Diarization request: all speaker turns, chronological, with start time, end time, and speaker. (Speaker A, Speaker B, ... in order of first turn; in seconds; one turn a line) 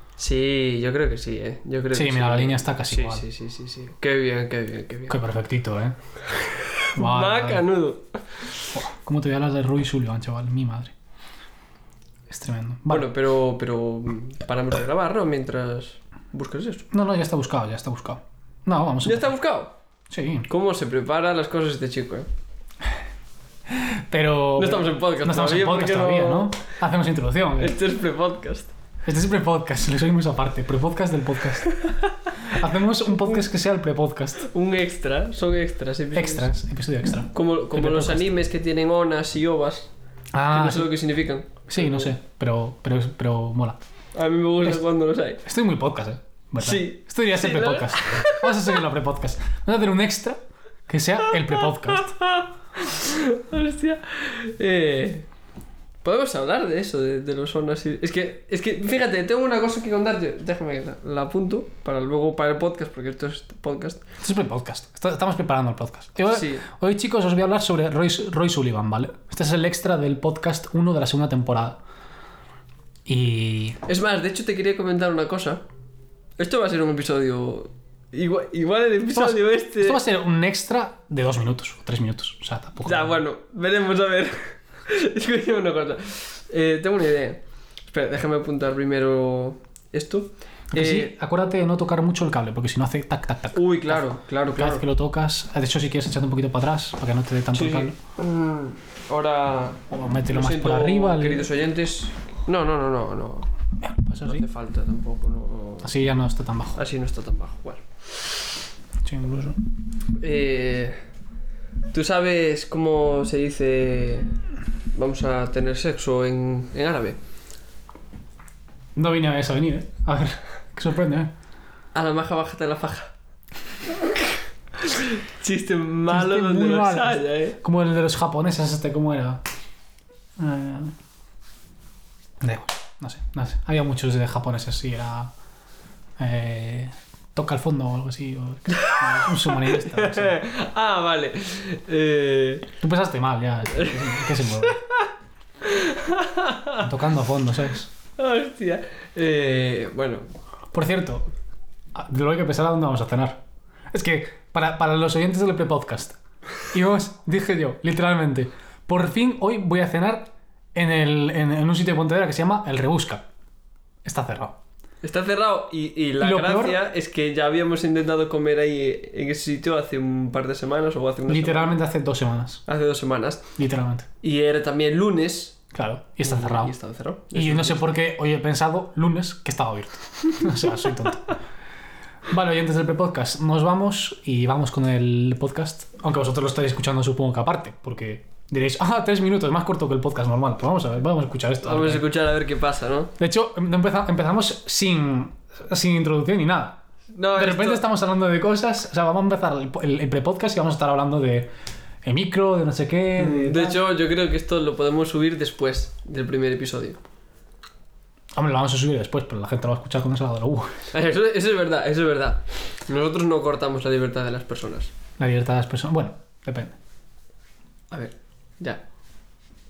Speaker A: 0.2-5.2
Speaker B: 1.9-3.2
Speaker B: 5.1-6.0
Speaker A: 6.3-8.6
Speaker B: 7.0-7.7
Speaker B: 8.7-10.9
Speaker B: 12.3-13.1
Speaker A: 12.9-16.9
Speaker B: 16.9-19.4
Speaker A: 19.0-19.7
Speaker B: 20.1-20.5
Speaker A: 20.5-22.3
Speaker B: 23.8-27.8
Speaker A: 24.6-26.6
Speaker A: 27.6-28.7
Speaker B: 29.1-31.8
Speaker B: 32.5-34.5
Speaker A: 34.5-36.5
Speaker B: 36.1-38.3
Speaker A: 37.3-39.9
Speaker B: 40.3-40.9
Speaker A: 40.5-42.1
Speaker B: 41.7-43.8
Speaker A: 44.1-45.4
Speaker B: 45.4-52.2
Speaker A: 46.6-48.5
Speaker A: 52.2-55.3
Speaker A: 56.0-64.0
Speaker B: 64.2-71.8
Speaker A: 66.3-66.7
Speaker B: 73.1-73.8
Speaker A: 73.8-75.6
Speaker A: 76.4-80.0
Speaker B: 79.1-83.2
Speaker A: 82.8-91.1
Speaker B: 90.7-97.9
Speaker A: 93.5-94.8
Speaker A: 97.5-103.5
Speaker B: 99.9-101.5
Speaker B: 103.8-104.5
Speaker A: 104.2-105.9
Speaker B: 105.8-106.8
Speaker A: 106.8-107.8
Speaker B: 109.0-109.6
Speaker A: 110.2-111.0
Speaker A: 111.9-114.4
Speaker A: 114.9-117.2
Speaker B: 119.0-121.3
Speaker A: 121.9-123.1
Speaker A: 124.8-127.6
Speaker B: 126.1-129.4
Speaker B: 130.4-130.9
Speaker B: 132.4-135.3
Speaker B: 136.2-140.4
Speaker A: 139.2-142.7
Speaker B: 142.8-144.8
Speaker A: 143.8-145.1
Speaker A: 145.6-146.8
Speaker B: 146.7-147.9
Speaker A: 148.2-150.3
Speaker B: 150.7-151.3
Speaker B: 151.9-153.4
Speaker B: 153.9-163.2
Speaker B: 164.1-164.6
Speaker A: 165.0-171.8
Speaker B: 166.2-166.8
Speaker B: 171.3-172.6
Speaker A: 172.7-173.5
Speaker B: 173.6-174.1
Speaker A: 174.2-175.6
Speaker B: 175.7-176.7
Speaker A: 176.2-177.8
Speaker B: 177.3-181.3
Speaker B: 182.3-192.1
Speaker A: 191.6-193.1
Speaker B: 193.2-196.8
Speaker A: 197.1-197.8
Speaker B: 197.3-201.5
Speaker B: 202.0-203.8
Speaker A: 203.2-207.0
Speaker B: 208.4-210.8
Speaker A: 210.9-214.9
Speaker B: 215.2-216.8
Speaker A: 217.9-218.8